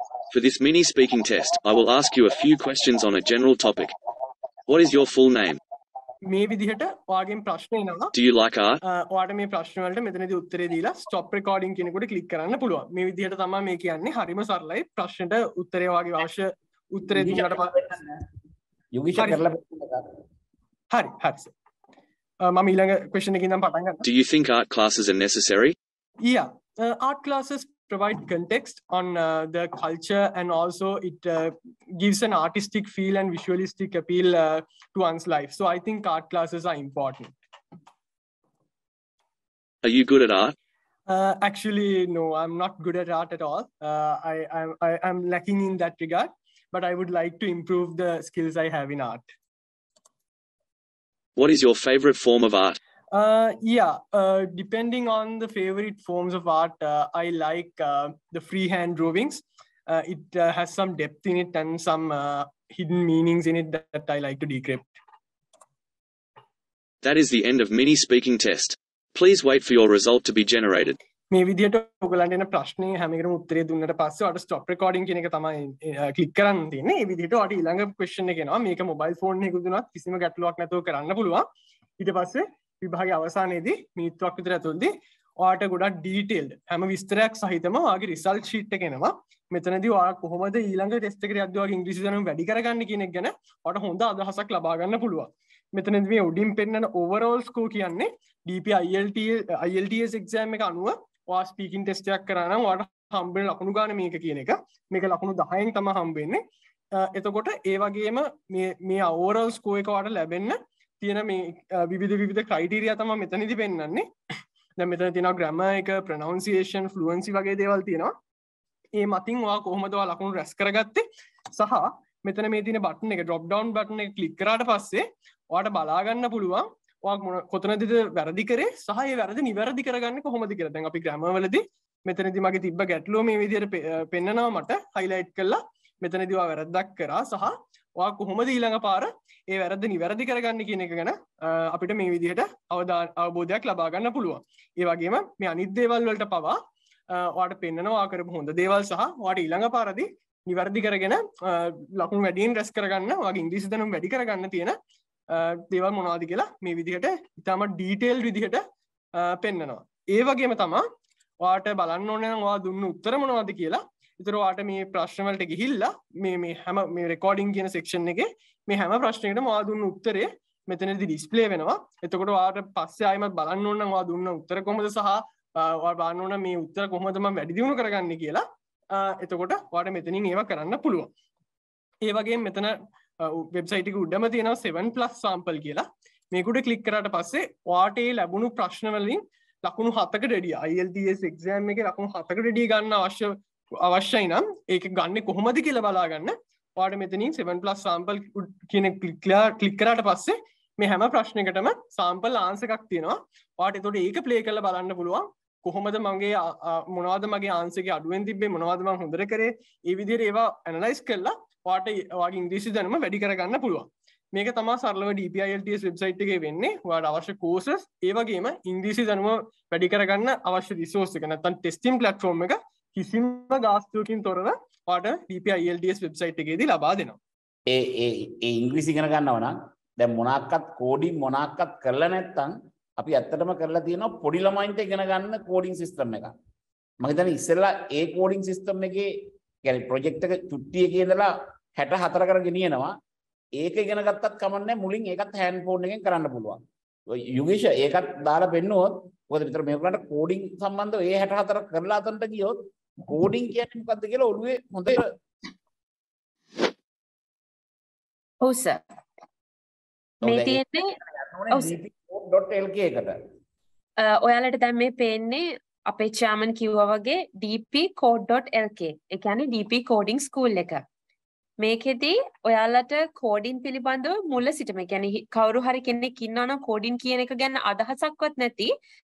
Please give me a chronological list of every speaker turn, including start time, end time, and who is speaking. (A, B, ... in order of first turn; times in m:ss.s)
0:00.3-0:03.9 A
0:04.7-0:05.6 A
0:06.3-0:08.1 B
0:08.2-0:08.8 A
0:08.8-0:17.7 B
0:17.1-0:18.2 C
0:18.9-0:20.1 C
0:20.9-0:21.5 B
0:22.5-0:24.0 B
0:24.0-0:25.8 A
0:26.2-0:37.3 B
0:39.8-0:40.5 A
0:41.1-0:49.3 B
0:51.4-0:52.8 A
0:53.1-1:05.0 B
1:07.0-1:11.0 A
1:11.3-1:21.4 B
1:22.0-1:46.4 B
1:47.0-1:54.1 B
1:54.8-1:58.1 B
1:59.0-2:26.6 B
2:27.2-2:34.8 B
2:35.4-2:38.6 B
2:39.2-2:40.8 B
2:41.4-3:01.1 B
3:02.0-3:47.2 B
3:47.7-3:56.3 C
3:57.0-3:59.1 C
3:59.6-4:03.0 C
4:03.6-4:15.1 C
4:18.4-4:18.8 D
4:20.2-4:23.2 C
4:20.2-4:21.0 D
4:21.5-4:21.8 D
4:24.0-4:30.8 D
4:31.6-4:38.7 D